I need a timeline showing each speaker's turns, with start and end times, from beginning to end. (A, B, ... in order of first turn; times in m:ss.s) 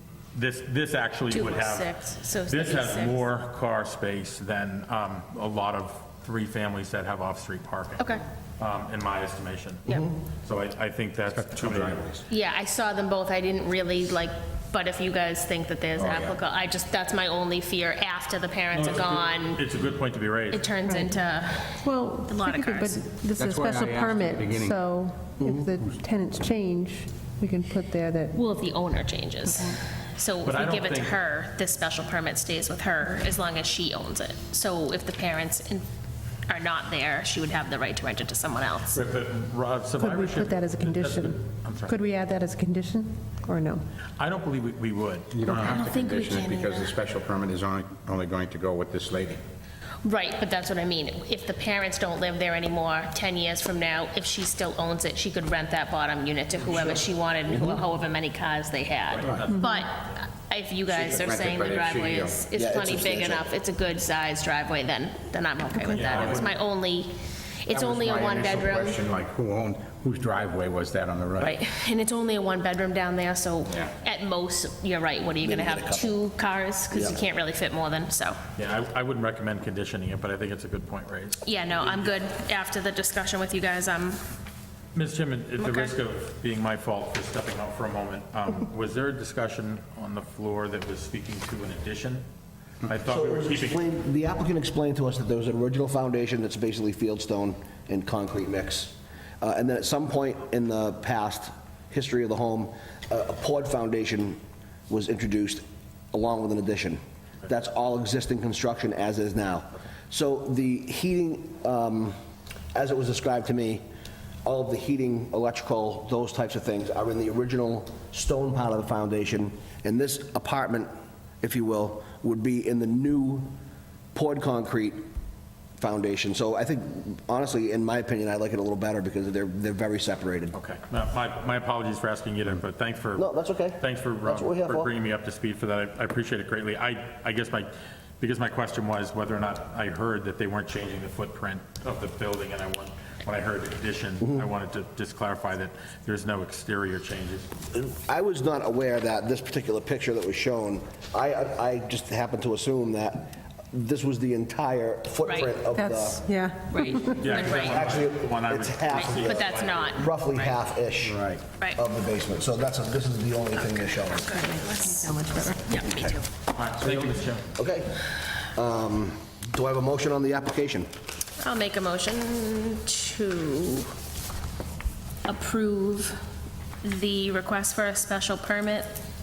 0:00.3-0:01.9 A
0:01.3-0:03.2 B
0:02.5-0:12.0 A
0:11.3-0:12.2 C
0:12.3-0:19.6 B
0:16.0-0:16.4 C
0:18.7-0:20.6 A
0:20.5-0:23.0 B
0:21.8-0:28.2 D
0:23.3-0:24.8 C
0:25.4-0:25.7 E
0:28.3-0:35.8 B
0:30.4-0:31.1 A
0:36.5-0:39.0 B
0:38.9-0:42.0 A
0:40.0-0:41.3 D
0:41.9-0:43.7 D
0:44.2-0:45.8 A
0:45.3-0:49.4 C
0:45.5-0:46.9 B
0:50.0-1:07.1 B
0:59.1-0:59.9 A
1:00.9-1:02.4 C
1:02.5-1:03.5 E
1:05.9-1:06.6 A
1:07.6-1:09.0 B
1:07.7-1:11.5 C
1:11.4-1:18.4 B
1:15.4-1:16.1 E
1:16.9-1:17.2 E
1:18.6-1:22.2 A
1:21.4-1:24.2 B
1:24.9-1:32.2 A
1:25.6-1:25.9 B
1:32.8-1:33.8 A
1:33.1-1:52.1 E
1:52.7-1:53.8 E
1:54.4-2:00.9 E
2:01.4-2:03.5 E
2:04.1-2:05.0 E
2:05.8-2:10.5 E
2:10.5-2:27.5 A
2:13.2-2:14.9 E
2:27.7-2:36.3 E
2:35.2-2:35.5 B
2:35.7-2:37.1 D
2:36.7-2:38.0 B
2:37.2-2:40.6 A
2:37.3-2:41.2 E
2:38.9-2:40.1 B
2:41.0-2:41.4 C
2:41.8-2:44.5 E
2:43.5-2:46.2 B
2:45.1-2:45.5 D
2:45.8-2:46.2 E
2:46.5-2:47.4 A
2:46.8-2:48.0 E
2:48.5-2:50.9 E
2:51.4-2:53.9 B
2:55.2-2:56.2 B
2:56.8-2:58.9 B